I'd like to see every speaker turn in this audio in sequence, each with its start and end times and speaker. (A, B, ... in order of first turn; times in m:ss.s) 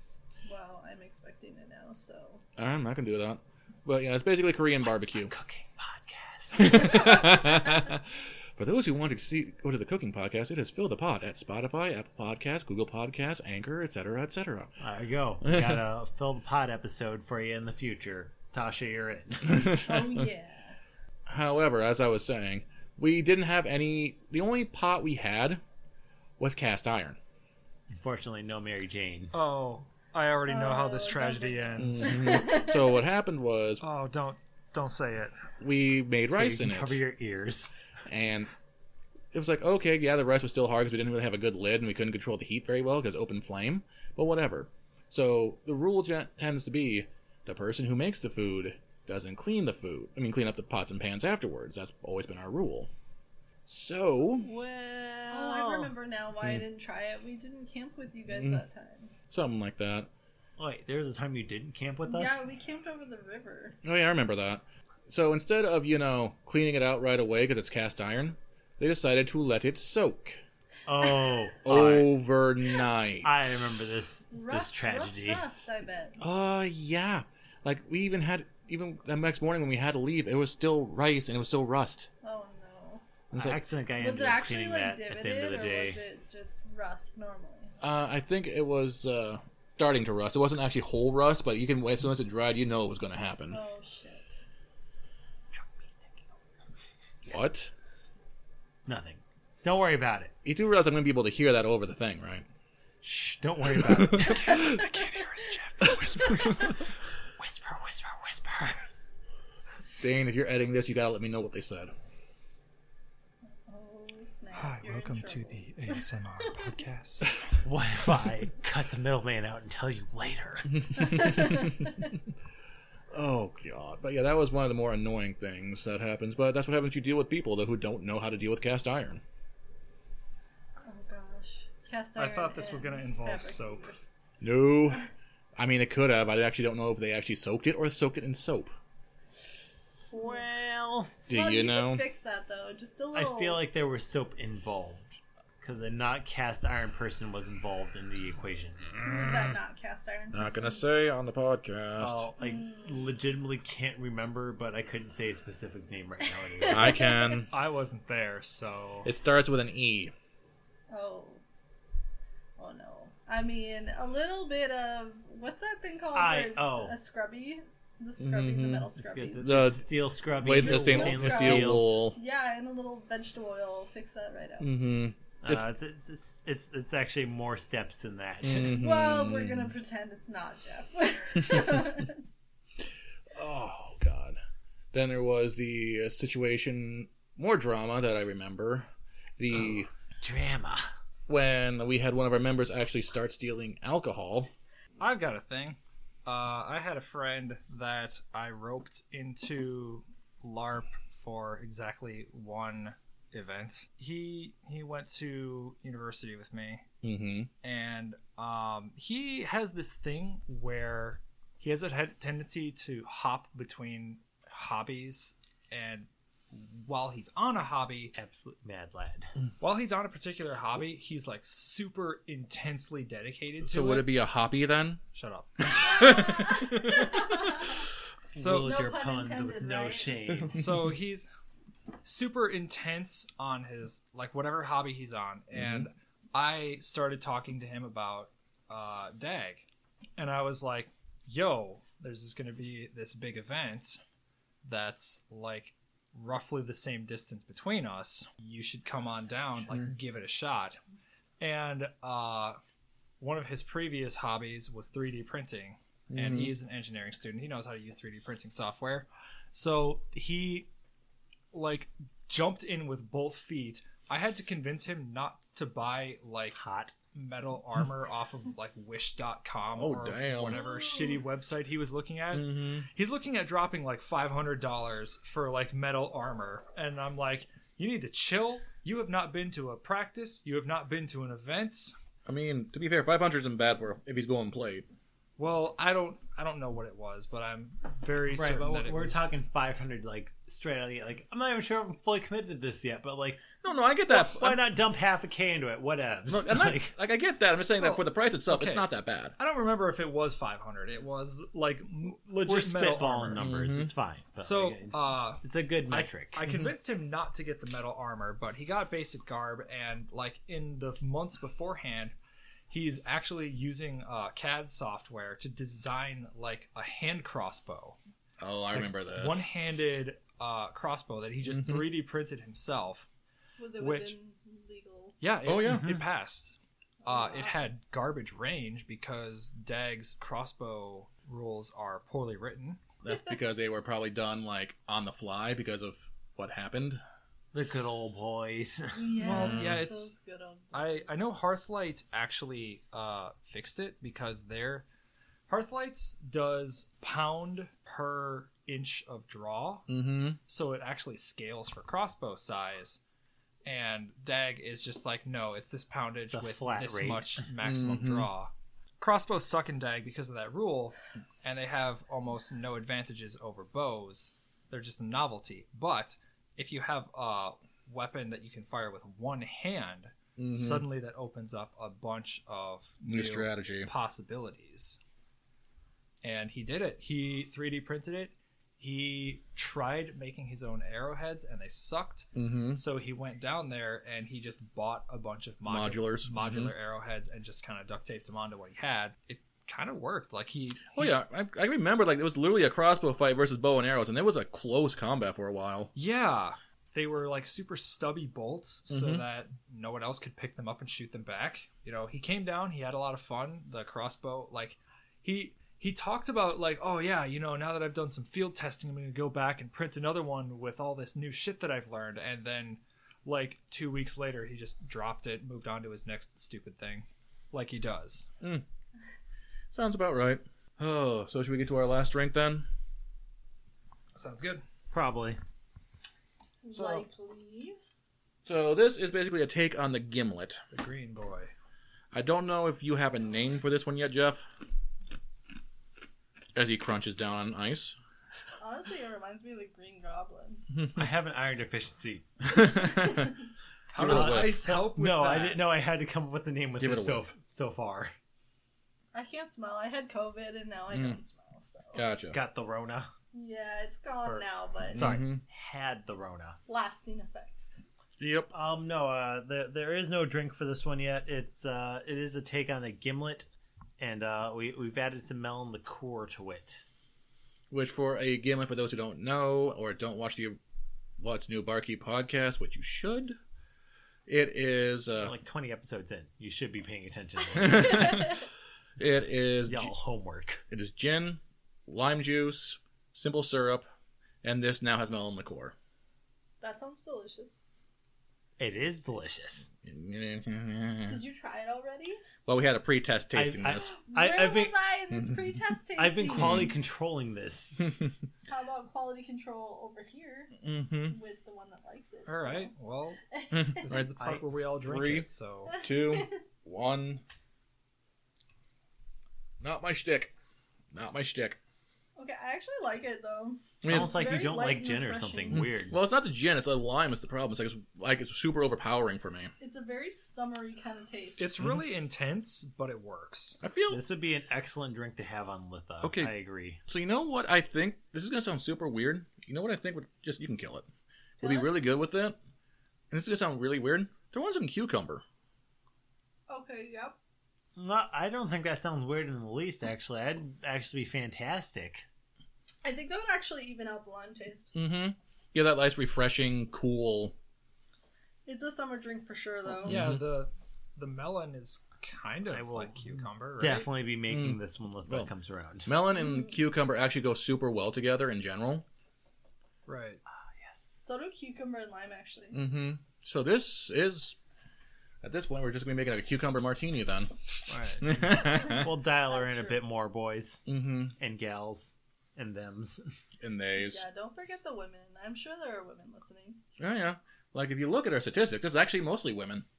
0:00.4-0:02.4 A
0:02.6-0:05.3 B
0:04.8-0:07.1 C
0:06.6-0:14.7 B
0:14.8-0:19.8 C
0:15.4-0:15.8 B
0:19.5-0:20.2 B
0:19.8-0:20.8 A
0:21.3-0:25.6 B
0:26.4-0:27.2 B
0:27.9-0:29.3 C
0:29.3-0:32.1 D
0:30.5-0:33.0 A
0:31.8-0:33.8 B
0:33.8-0:35.4 D
0:35.6-0:37.0 B
0:36.3-0:37.7 C
0:38.1-0:38.5 B
0:39.3-0:52.9 B
0:53.7-0:54.5 B
0:54.4-0:55.9 C
0:55.2-0:59.1 A
0:58.3-0:58.6 B
0:59.3-1:00.1 B
1:00.6-1:02.4 C
1:02.0-1:03.8 A
1:03.8-1:10.4 B
1:10.9-1:12.1 C
1:11.6-1:13.6 B
1:13.2-1:15.4 C
1:14.3-1:16.2 A
1:16.2-1:22.1 B
1:22.2-1:23.0 A
1:23.3-1:23.6 B
1:23.3-1:26.0 C
1:24.0-1:27.7 A
1:27.8-1:33.6 B
1:33.5-1:34.4 A
1:35.5-1:36.2 C
1:37.2-1:37.7 B
1:38.8-1:40.3 C
1:40.4-1:42.4 B
1:43.0-1:44.6 C
1:44.3-1:46.5 D
1:47.4-1:48.8 C
1:50.0-1:51.9 B
1:53.7-1:56.0 A
1:54.5-1:57.3 D
1:57.6-2:01.2 C
2:00.8-2:01.6 B
2:01.0-2:01.9 A
2:03.1-2:09.2 B
2:10.8-2:14.0 A
2:12.2-2:13.9 D
2:14.4-2:15.0 B
2:15.6-2:18.7 B
2:20.1-2:21.1 C
2:20.1-2:20.4 A
2:21.3-2:22.0 B
2:21.3-2:23.6 A
2:23.1-2:28.9 C
2:28.9-2:29.6 B
2:29.0-2:30.8 A
2:30.3-2:32.3 B
2:32.0-2:37.0 C
2:32.4-2:33.0 A
2:36.6-2:37.4 A
2:36.7-2:37.5 B
2:37.5-2:39.1 D
2:39.0-2:40.1 B
2:40.9-2:41.4 A
2:42.6-2:49.7 A
2:46.1-2:47.0 C
2:48.2-2:48.9 B
2:49.0-2:51.9 C
2:49.4-2:49.8 B
2:50.4-2:52.2 B
2:50.4-2:54.8 A
2:54.6-2:55.6 B
2:55.4-2:58.8 C
2:58.4-2:59.7 B
2:58.7-3:02.2 A
3:03.3-3:04.4 B
3:04.9-3:09.9 B
3:10.2-3:10.8 C
3:11.3-3:14.5 B
3:15.0-3:26.8 D
3:27.0-3:27.5 B
3:27.6-3:38.1 D
3:38.1-3:39.3 C
3:39.6-3:44.1 D
3:43.6-3:45.0 B
3:45.1-3:45.8 D
3:45.7-3:47.1 B
3:45.8-3:47.8 A
3:48.4-3:50.5 C
3:48.4-3:48.8 D
3:48.5-3:50.1 A
3:50.5-3:51.3 D
3:52.0-3:59.6 D
3:55.5-3:55.9 B
4:00.2-4:04.0 D
4:04.6-4:10.8 D
4:11.4-4:12.6 D
4:13.2-4:20.7 D
4:16.1-4:16.5 B
4:21.5-4:26.6 D
4:26.5-4:26.9 C
4:27.1-4:41.9 D
4:29.8-4:30.6 B
4:30.5-4:31.2 A
4:32.3-4:32.9 B
4:42.2-4:44.8 B
4:45.4-4:49.3 D
4:48.3-4:53.5 C
4:53.6-4:54.6 B
4:54.1-4:56.9 C
4:56.3-4:59.3 B
4:57.8-4:58.8 D
4:59.4-5:03.4 D
5:02.4-5:06.4 C
5:03.4-5:03.9 B
5:04.4-5:12.1 D
5:12.7-5:18.0 D
5:18.4-5:19.4 B
5:18.7-5:23.1 D
5:21.4-5:21.8 B
5:23.6-5:25.2 A
5:23.8-5:24.2 D
5:25.2-5:32.8 D
5:25.4-5:25.9 B
5:27.0-5:27.7 A
5:33.0-5:37.0 B
5:33.1-5:33.4 A
5:37.5-5:39.2 C
5:39.0-5:41.2 A
5:39.2-5:40.1 D
5:39.3-5:39.8 B
5:40.7-5:44.8 D
5:45.5-5:49.9 D
5:49.9-5:50.4 B
5:50.5-5:53.0 D
5:53.6-6:15.0 D
5:56.3-5:57.4 C
5:57.6-5:58.3 B
6:10.4-6:10.9 B
6:13.0-6:13.9 B
6:16.2-6:31.1 D
6:22.3-6:22.8 B
6:25.6-6:26.7 B
6:30.9-6:35.9 B
6:35.9-6:58.3 D
6:38.9-6:39.2 B
6:59.7-7:02.7 B
7:04.1-7:04.6 D
7:04.9-7:05.4 C
7:06.6-7:07.8 A
7:06.7-7:07.0 B
7:08.4-7:10.6 B
7:10.7-7:11.5 D
7:12.1-7:14.4 B
7:16.5-7:18.0 B
7:18.6-7:20.6 A
7:20.9-7:22.3 C
7:22.5-7:23.3 B
7:23.0-7:23.3 A
7:23.9-7:25.6 D
7:23.9-7:24.6 B
7:24.0-7:28.1 C
7:26.8-7:27.2 B
7:29.1-7:32.0 A
7:30.9-7:31.2 B
7:31.9-7:32.4 B
7:32.3-7:33.1 C
7:33.3-7:35.1 A
7:34.2-7:35.4 B
7:35.0-7:36.6 C
7:36.7-7:37.8 A
7:38.2-7:38.5 B
7:38.5-7:46.8 C
7:47.7-7:50.6 B
7:51.2-7:53.4 B
7:54.3-7:55.3 B
7:55.2-7:58.3 C
7:57.6-7:58.4 B
7:59.0-7:59.9 B
7:59.7-8:00.6 C
8:00.7-8:03.9 B
8:04.4-8:05.7 B
8:06.6-8:07.6 A
8:08.6-8:09.7 C
8:09.8-8:11.2 B
8:11.1-8:12.2 A
8:12.4-8:13.9 B
8:13.3-8:14.7 C
8:13.9-8:16.7 A
8:16.0-8:17.8 C
8:16.4-8:16.7 B
8:17.8-8:18.1 B
8:18.5-8:20.5 A
8:20.6-8:21.2 B
8:21.1-8:23.8 A
8:22.2-8:23.2 D
8:23.5-8:24.1 B
8:23.8-8:25.8 D
8:24.2-8:24.4 C
8:24.8-8:27.2 B
8:25.7-8:26.3 A
8:29.6-8:30.3 B
8:30.9-8:31.6 B
8:32.2-8:35.7 A
8:33.8-8:34.2 B
8:33.9-8:36.0 C
8:35.5-8:39.5 B
8:39.6-8:41.5 A
8:41.4-8:43.6 D
8:43.6-8:44.0 B
8:43.9-8:46.8 C
8:46.0-8:46.3 B
8:46.9-8:50.9 B
8:51.4-8:52.4 B
8:51.4-8:51.9 A
8:53.1-8:55.2 B
8:56.5-8:57.2 A
8:57.8-9:02.0 C
9:02.8-9:04.7 A
9:04.7-9:07.3 B
9:08.4-9:10.0 A
9:09.8-9:13.9 D
9:09.8-9:10.2 B
9:12.5-9:13.1 C
9:13.6-9:15.9 C
9:14.3-9:14.6 B
9:15.8-9:18.8 B
9:19.8-9:20.2 D
9:20.3-9:21.0 C
9:21.0-9:22.6 A
9:22.5-9:24.4 B
9:25.2-9:28.9 B
9:27.7-9:30.6 C
9:28.4-9:29.8 A
9:30.7-9:31.1 B
9:31.2-9:33.0 C
9:33.4-9:34.0 B
9:33.7-9:36.6 A
9:36.8-9:39.6 B